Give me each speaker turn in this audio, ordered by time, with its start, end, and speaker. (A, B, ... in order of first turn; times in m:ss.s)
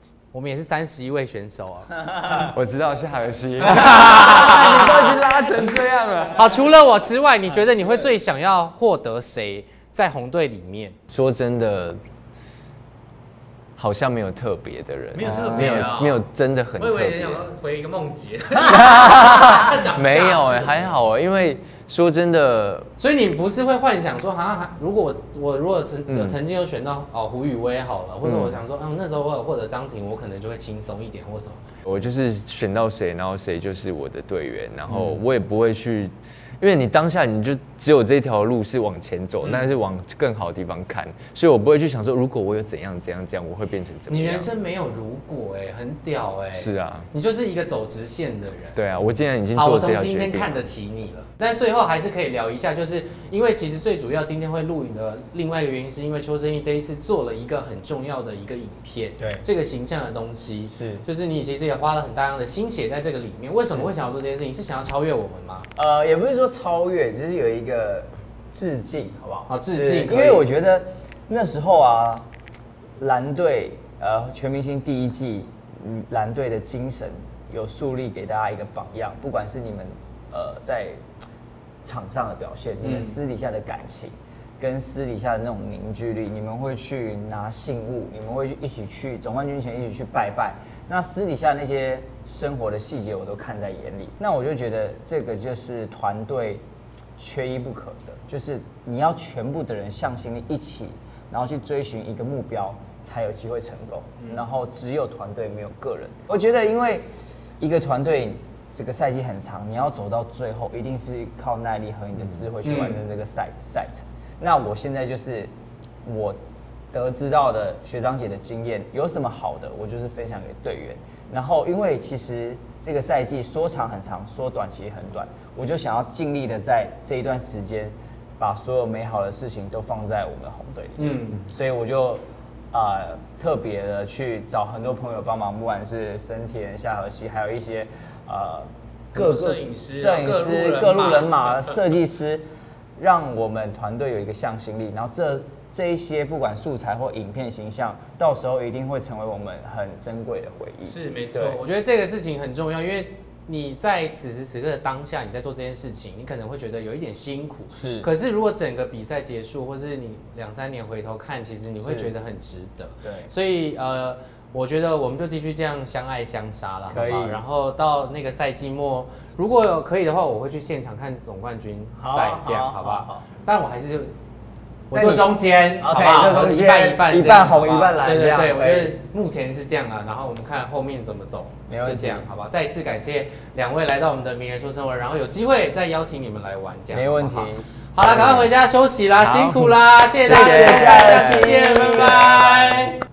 0:00.3-0:02.5 A
0:02.4-0:06.5 B
0:03.6-0:05.2 A
0:06.3-0:11.0 A
0:07.7-0:08.1 C
0:11.1-0:12.0 B
0:13.8-0:17.4 B
0:15.1-0:20.9 A
0:15.3-0:15.9 C
0:18.6-0:22.9 B
0:23.0-0:31.6 A
0:26.1-0:26.4 B
0:28.2-0:28.6 B
0:31.8-0:44.5 B
0:34.9-0:35.2 A
0:44.1-0:48.8 A
0:46.5-0:47.1 B
0:48.8-0:50.5 B
0:49.5-1:05.7 A
0:59.2-0:59.4 C
1:00.7-1:01.0 C
1:05.8-1:12.2 C
1:09.5-1:10.4 A
1:13.0-1:21.0 C
1:21.8-1:36.6 C
1:22.8-1:23.2 A
1:37.2-1:47.0 C
1:47.6-1:55.5 C
1:52.6-1:53.0 A
1:56.0-1:56.4 C
1:56.9-2:22.4 C
2:11.0-2:11.5 A
2:19.1-2:21.8 A
2:23.0-2:31.6 C
2:30.8-2:54.1 A
2:37.7-2:38.1 C
2:41.8-2:42.1 C
2:43.0-2:43.3 C
2:46.9-2:47.4 C
2:52.0-2:53.2 C
2:54.9-3:13.0 A
2:54.9-2:58.9 C
3:01.7-3:02.3 C
3:06.9-3:08.4 C
3:09.2-3:11.5 B
3:10.2-3:12.8 C